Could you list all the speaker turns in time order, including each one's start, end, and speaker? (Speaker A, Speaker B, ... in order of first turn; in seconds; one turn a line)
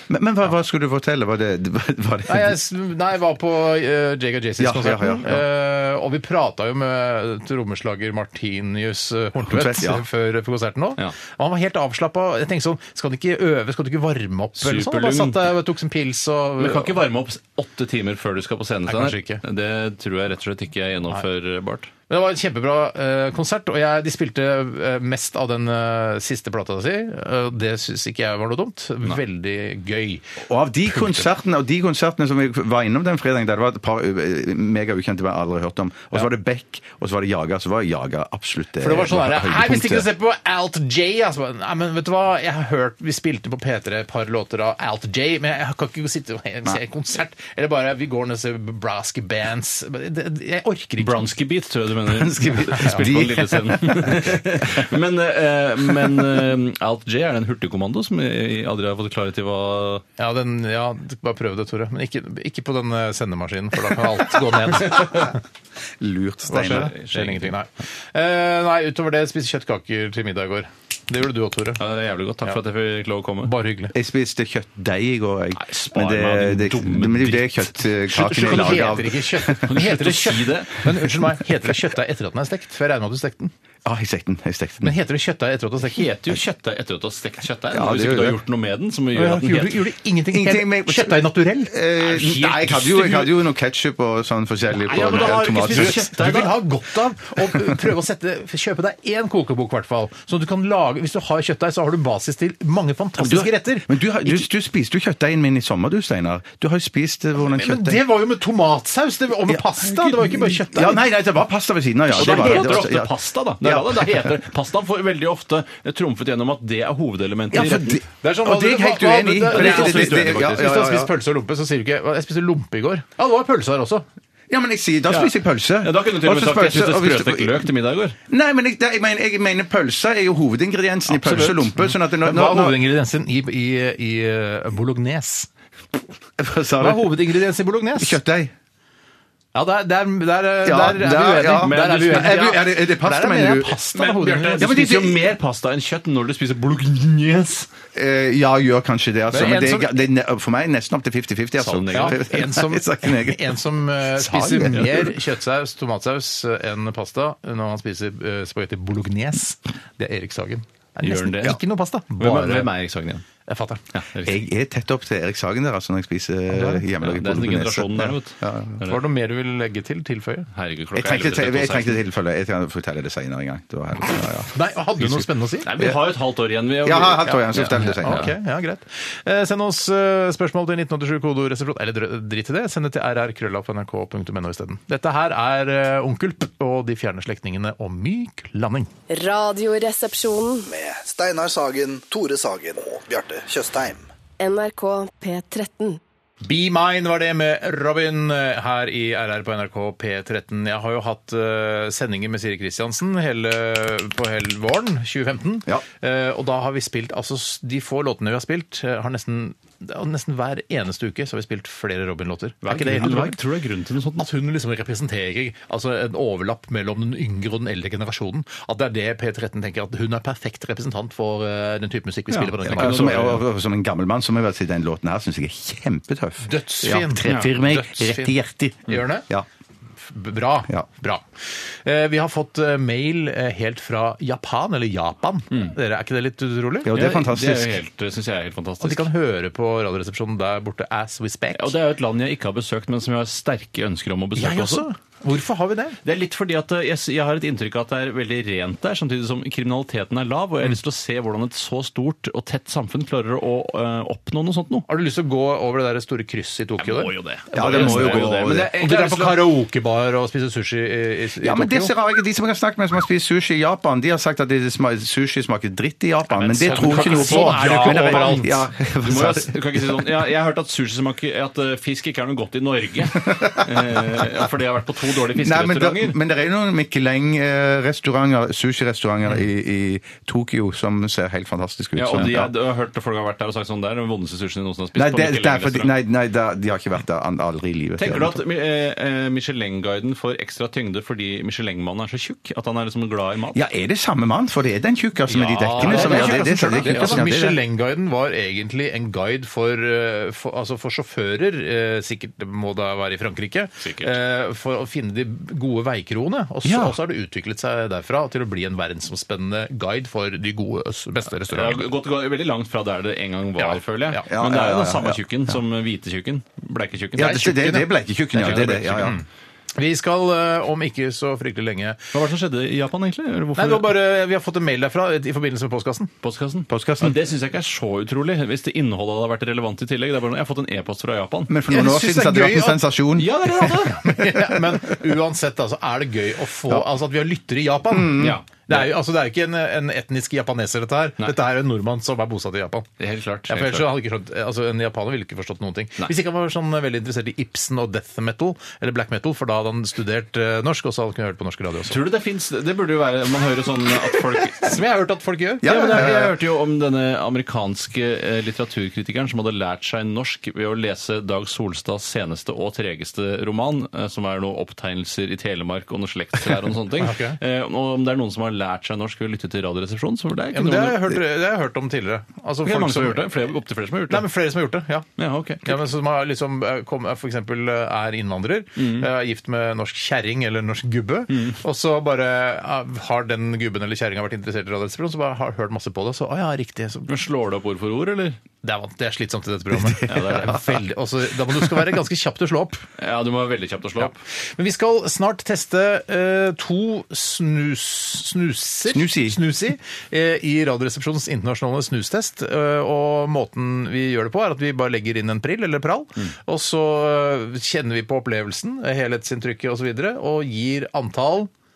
Speaker A: 0.1-2.5
Speaker B: 2.3-17.0
Speaker A: 4.6-5.4
Speaker A: 9.4-10.0
Speaker C: 14.6-15.5
Speaker C: 16.6-21.9
Speaker B: 18.9-19.4
Speaker B: 22.1-31.2
Speaker A: 30.4-40.1
Speaker B: 38.8-51.3
Speaker C: 51.0-60.0
Speaker A: 52.1-54.8
Speaker B: 52.7-53.1
Speaker B: 60.2-65.4
Speaker A: 66.0-66.9
Speaker B: 66.5-71.8
Speaker C: 66.6-67.5
Speaker C: 71.8-73.5
Speaker B: 73.4-73.9
Speaker A: 73.9-79.6
Speaker C: 75.5-81.0
Speaker B: 78.1-83.5
Speaker A: 83.8-84.9
Speaker B: 84.8-86.1
Speaker C: 85.8-89.8
Speaker A: 87.7-88.4
Speaker B: 89.1-92.9
Speaker A: 90.3-96.1
Speaker C: 92.1-93.3
Speaker C: 94.8-96.5
Speaker B: 94.8-104.4
Speaker A: 103.2-108.0
Speaker B: 107.4-111.0
Speaker A: 109.5-114.3
Speaker C: 112.1-118.0
Speaker B: 112.2-112.9
Speaker A: 117.5-121.1
Speaker B: 118.2-124.0
Speaker C: 119.5-120.5
Speaker A: 124.5-127.7
Speaker C: 125.1-128.2
Speaker A: 128.3-132.8
Speaker C: 131.1-131.6
Speaker B: 131.4-135.5
Speaker A: 136.4-137.2
Speaker B: 136.8-138.2
Speaker A: 137.9-138.5
Speaker B: 139.5-144.7
Speaker A: 140.6-143.8
Speaker C: 141.5-142.6
Speaker C: 143.9-147.7
Speaker A: 144.6-145.2
Speaker A: 147.9-155.1
Speaker B: 149.3-150.0
Speaker C: 151.6-152.2
Speaker B: 151.9-162.7
Speaker C: 161.0-161.6
Speaker C: 162.2-163.2
Speaker B: 163.4-163.8
Speaker C: 163.9-164.4
Speaker A: 164.2-168.8
Speaker B: 166.5-166.8
Speaker C: 167.0-169.0
Speaker B: 168.8-170.5
Speaker C: 170.5-172.0
Speaker A: 170.9-175.2
Speaker B: 174.5-175.7
Speaker C: 175.6-178.3
Speaker A: 176.8-178.3
Speaker B: 177.8-188.9
Speaker D: 189.1-190.7
Speaker E: 190.7-194.0
Speaker D: 194.4-196.0
Speaker B: 196.4-213.4
Speaker C: 212.6-214.3
Speaker B: 214.2-223.4
Speaker C: 222.3-223.4
Speaker A: 222.7-229.4
Speaker B: 226.4-229.3
Speaker C: 227.2-227.5
Speaker B: 230.0-236.9
Speaker A: 236.8-237.8
Speaker C: 236.9-239.1
Speaker B: 238.8-241.7
Speaker C: 241.5-244.8
Speaker B: 244.3-246.0
Speaker C: 246.0-254.9
Speaker B: 254.9-261.9
Speaker C: 256.8-259.5
Speaker A: 257.5-258.7
Speaker A: 261.4-270.0
Speaker C: 266.3-276.2
Speaker B: 266.6-268.6
Speaker A: 273.3-274.3
Speaker A: 275.3-282.5
Speaker C: 281.9-285.9
Speaker A: 284.9-288.4
Speaker C: 288.0-293.6
Speaker A: 293.5-297.6
Speaker B: 295.3-311.8
Speaker C: 295.4-297.2
Speaker C: 303.8-304.1
Speaker C: 306.6-306.9
Speaker C: 311.5-317.5
Speaker B: 313.6-314.2
Speaker A: 314.3-315.2
Speaker A: 317.1-319.2
Speaker B: 317.2-317.9
Speaker C: 318.3-319.2
Speaker B: 318.5-319.2
Speaker B: 319.7-322.1
Speaker C: 322.1-323.9
Speaker B: 323.6-326.1
Speaker C: 326.2-331.5
Speaker A: 326.7-327.2
Speaker A: 331.5-334.6
Speaker B: 331.7-332.8
Speaker C: 333.1-334.0
Speaker B: 333.9-342.9
Speaker A: 337.9-338.4
Speaker C: 338.1-338.9
Speaker C: 343.0-343.9
Speaker B: 343.5-352.0
Speaker C: 351.9-354.7
Speaker B: 354.5-356.2
Speaker A: 355.6-356.4
Speaker C: 355.6-371.1
Speaker B: 367.0-367.4
Speaker B: 370.5-373.3
Speaker C: 372.6-374.2
Speaker B: 374.1-375.1
Speaker C: 375.2-375.8
Speaker B: 375.6-387.1
Speaker C: 378.8-379.1
Speaker C: 381.3-381.6
Speaker C: 387.1-388.4
Speaker B: 388.6-392.8
Speaker A: 389.9-390.6
Speaker C: 390.1-390.6
Speaker C: 393.0-394.2
Speaker B: 394.0-411.5
Speaker A: 398.9-399.4